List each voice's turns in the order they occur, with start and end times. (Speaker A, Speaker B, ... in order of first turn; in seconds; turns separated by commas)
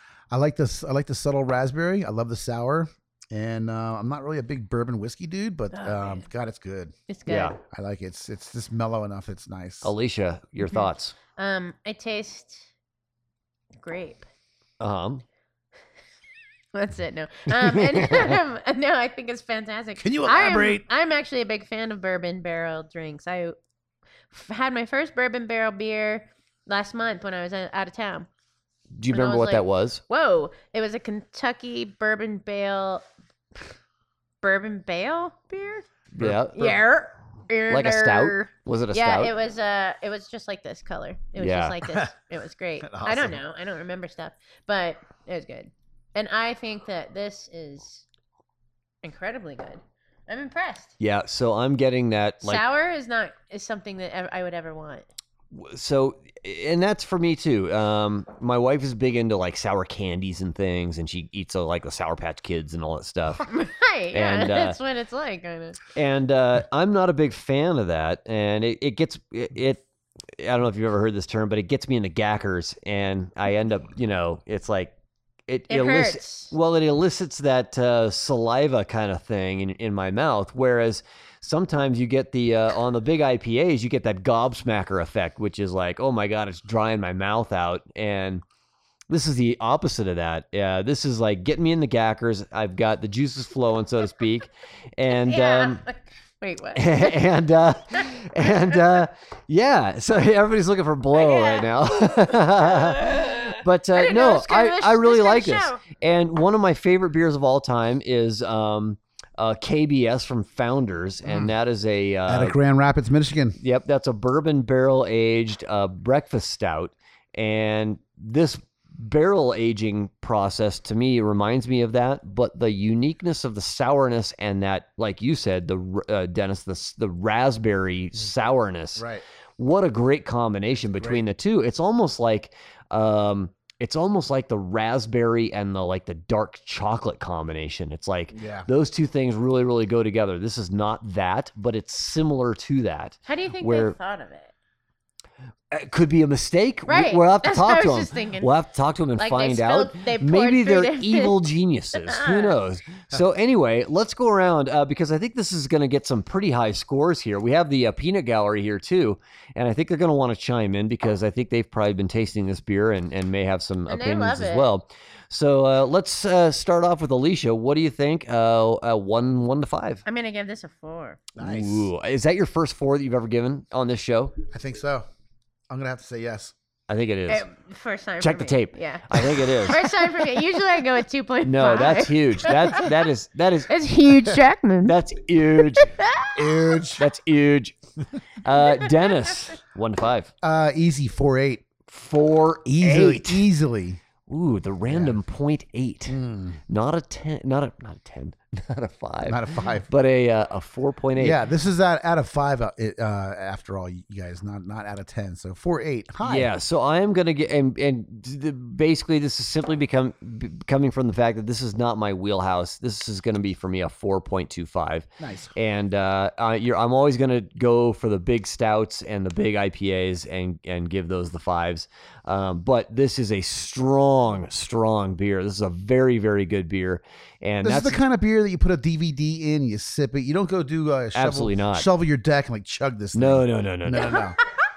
Speaker A: 0.3-6.9, Speaker B: 5.7-6.2, Speaker B: 7.1-7.5, Speaker C: 7.3-7.6, Speaker A: 7.7-9.9, Speaker C: 9.8-11.2, Speaker B: 10.6-12.7, Speaker B: 13.8-14.2, Speaker C: 14.8-15.2, Speaker B: 16.7-23.6, Speaker C: 17.6-18.4, Speaker A: 20.0-20.9, Speaker B: 24.3-28.3, Speaker C: 29.0-30.0, Speaker B: 29.1-33.0, Speaker B: 34.4-35.9, Speaker C: 36.1-36.8, Speaker B: 36.5-48.0, Speaker C: 37.7-39.3, Speaker C: 41.4-42.0, Speaker A: 42.8-43.4, Speaker B: 49.0-50.9, Speaker C: 51.0-52.6, Speaker B: 52.4-55.1, Speaker C: 55.5-63.5, Speaker B: 63.5-65.8, Speaker C: 64.1-64.8, Speaker C: 65.9-69.8, Speaker C: 70.4-74.9, Speaker C: 75.5-88.4, Speaker B: 75.7-76.5, Speaker C: 89.1-95.8, Speaker B: 95.1-97.2, Speaker C: 96.8-112.5, Speaker B: 98.7-99.0, Speaker B: 101.2-105.8, Speaker A: 111.2-111.5, Speaker A: 112.3-113.6, Speaker C: 113.6-129.1, Speaker A: 129.0-129.2, Speaker C: 129.6-144.0, Speaker A: 131.0-131.2, Speaker A: 138.3-138.7, Speaker B: 143.3-144.5, Speaker C: 145.7-170.0, Speaker B: 146.9-148.5, Speaker B: 149.2-151.4, Speaker B: 152.0-152.6, Speaker B: 163.9-164.7, Speaker B: 170.1-171.2, Speaker A: 171.4-171.9, Speaker C: 171.4-174.4, Speaker A: 174.5-175.1, Speaker A: 175.7-176.5, Speaker C: 176.9-177.5, Speaker B: 177.3-182.9, Speaker C: 178.2-179.9, Speaker C: 181.4-183.7, Speaker B: 183.7-185.0, Speaker C: 184.8-185.9, Speaker B: 185.7-186.8, Speaker A: 186.3-187.0, Speaker C: 187.0-187.8, Speaker C: 188.4-190.3, Speaker B: 188.9-189.3, Speaker A: 190.4-191.7, Speaker C: 191.9-193.5, Speaker A: 192.7-194.0, Speaker C: 194.3-196.2, Speaker A: 194.9-195.2, Speaker A: 196.1-196.6, Speaker C: 196.7-201.4, Speaker A: 199.2-199.9, Speaker A: 201.2-206.5, Speaker C: 206.2-228.0, Speaker A: 215.2-215.5, Speaker A: 227.6-234.4, Speaker C: 231.1-231.9, Speaker C: 233.2-234.2, Speaker B: 234.0-234.4